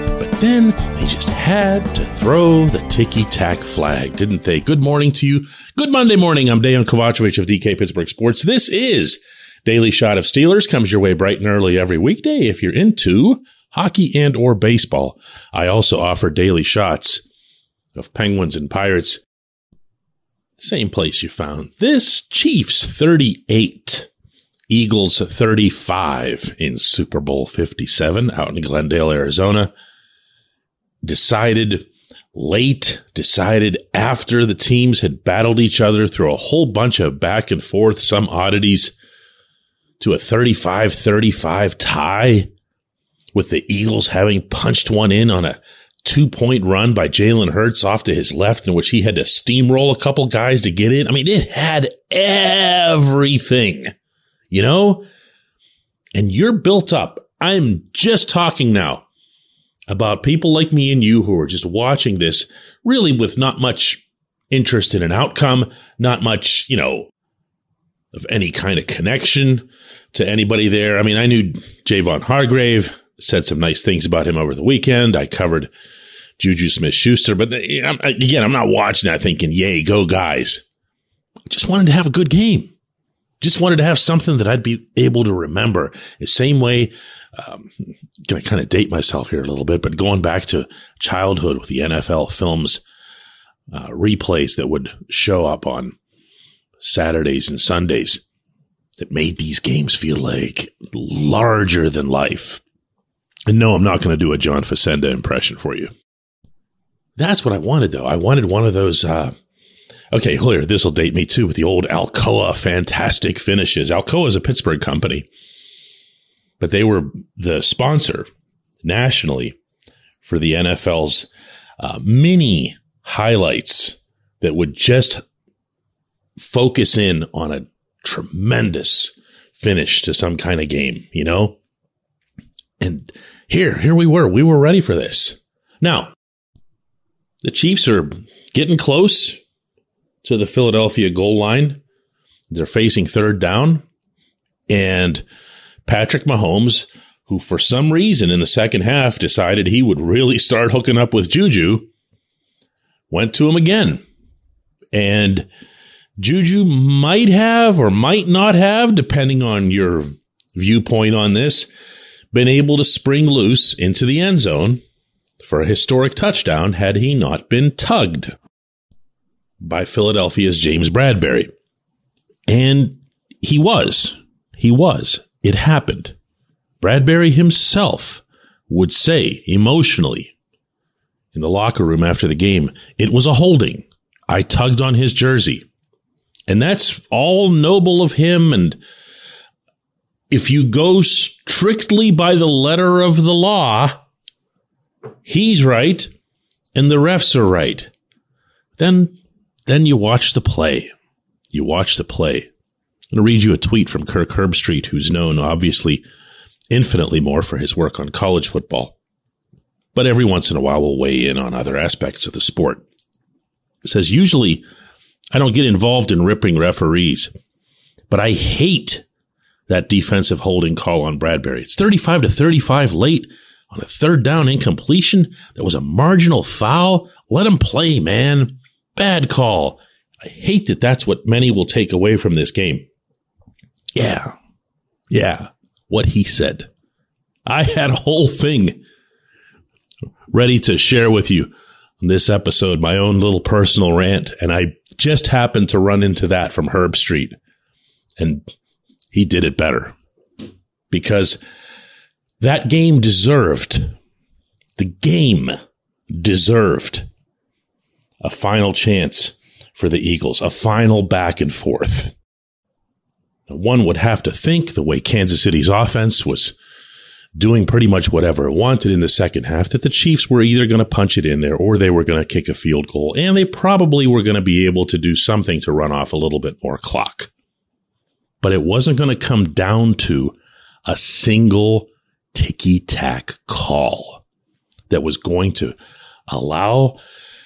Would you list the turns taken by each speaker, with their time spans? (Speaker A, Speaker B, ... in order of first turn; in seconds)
Speaker A: 0.2-17.2, 17.9-19.2, 20.6-24.1, 24.7-29.7, 31.0-38.9, 40.0-42.5, 43.3-53.9, 54.5-55.0, 56.1-59.0, 59.9-67.1, 68.1-75.7, 76.4-80.6, 81.5-82.7, 83.4-87.7, 88.2-92.8, 93.7-96.0, 96.8-98.2, 99.0-102.6, 103.5-105.9, 107.2-109.3, 110.1-115.3, 116.6-118.3, 118.8-119.6, 120.2-121.3, 121.8-125.2, 126.4-131.6, 132.8-136.1, 137.4-139.4, 140.2-141.8, 142.5-143.8, 144.7-145.2, 145.8-151.9, 153.1-154.0, 154.9-155.5, 156.2-161.7, 162.3-164.8, 165.4-168.3, 169.6-171.5, 172.5-176.2, 176.8-180.3, 181.3-185.7, 186.5-188.8, 190.3-194.0, 195.2-196.1, 196.8-197.9, 198.8-199.2, 199.7-200.9, 201.5-202.5, 203.1-206.0, 206.7-208.9, 209.9-212.8, 213.8-214.6, 215.3-217.3, 218.1-219.0, 219.7-232.8, 233.9-234.3, 235.1-236.7, 237.4-238.8, 240.3-247.4, 248.2-248.5, 249.1-250.0, 250.9-251.4, 252.4-253.9, 254.8-255.6, 256.1-257.1, 258.2-262.1, 263.5-266.6, 267.4-277.3, 278.4-284.2, 284.9-285.8, 286.3-287.0